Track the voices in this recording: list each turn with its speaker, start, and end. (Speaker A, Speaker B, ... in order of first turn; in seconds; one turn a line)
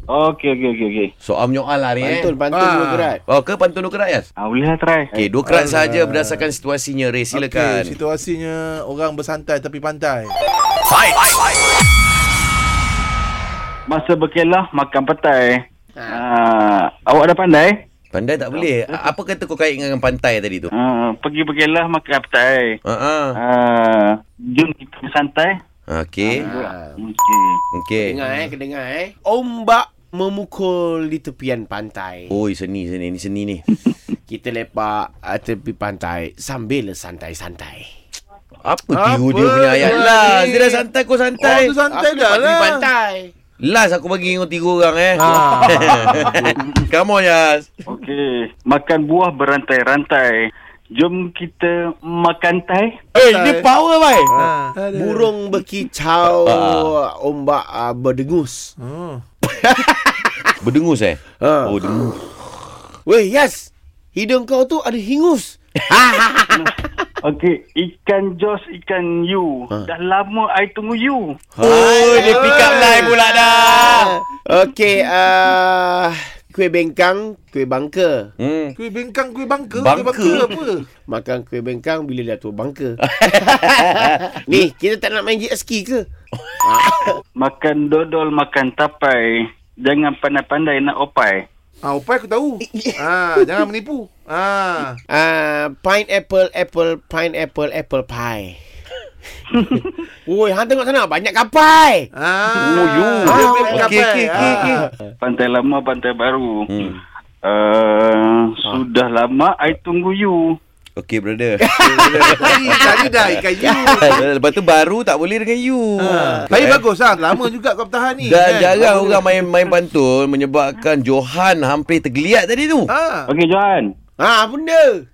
Speaker A: 0.1-1.1
Speaker B: 1.2-2.3
Speaker C: 2.0-3.2
Speaker D: 2.5-3.1
Speaker B: 3.3-4.2
Speaker A: 4.4-5.2
Speaker B: 5.1-8.0
Speaker D: 5.5-6.5
Speaker D: 7.3-10.3
Speaker A: 13.9-17.8
Speaker C: 15.9-16.2
Speaker B: 18.1-20.7
Speaker A: 18.4-19.1
Speaker A: 20.7-22.7
Speaker B: 22.8-23.4
Speaker A: 23.4-25.6
Speaker B: 25.9-26.4
Speaker A: 26.2-27.6
Speaker C: 26.3-27.0
Speaker B: 27.7-28.2
Speaker C: 28.0-32.4
Speaker D: 28.2-28.5
Speaker B: 32.3-33.6
Speaker C: 34.3-37.9
Speaker B: 38.6-41.7
Speaker D: 38.9-40.9
Speaker C: 39.8-40.1
Speaker D: 41.4-42.9
Speaker C: 41.8-43.3
Speaker B: 43.6-47.7
Speaker D: 45.2-46.5
Speaker C: 45.2-46.5
Speaker A: 47.9-50.4
Speaker A: 50.9-53.0
Speaker B: 53.1-54.3
Speaker D: 53.1-53.7
Speaker D: 54.3-55.3
Speaker C: 54.3-58.7
Speaker B: 56.4-56.9
Speaker D: 58.8-59.2
Speaker C: 59.5-60.5
Speaker B: 60.6-62.2
Speaker C: 61.4-61.8
Speaker C: 63.0-67.1
Speaker A: 66.5-71.4
Speaker C: 71.6-78.3
Speaker B: 71.6-74.2
Speaker D: 71.6-73.2
Speaker B: 78.4-78.8
Speaker D: 78.8-80.8
Speaker B: 79.7-80.5
Speaker C: 81.0-86.0
Speaker B: 83.0-84.6
Speaker B: 86.4-87.1
Speaker C: 86.6-87.2
Speaker A: 87.4-91.4
Speaker D: 91.8-95.0
Speaker C: 92.6-93.6
Speaker C: 95.1-98.6
Speaker C: 100.2-102.1
Speaker D: 102.1-104.9
Speaker A: 102.6-103.4
Speaker C: 102.6-105.1
Speaker B: 103.6-104.8
Speaker A: 105.2-106.7
Speaker B: 106.7-107.0
Speaker A: 107.4-110.5
Speaker B: 111.0-116.8
Speaker C: 111.6-114.2
Speaker D: 112.3-114.2
Speaker D: 116.0-119.1
Speaker C: 116.1-116.5
Speaker B: 118.2-122.9
Speaker D: 122.9-123.3
Speaker A: 123.3-123.9
Speaker C: 124.2-125.0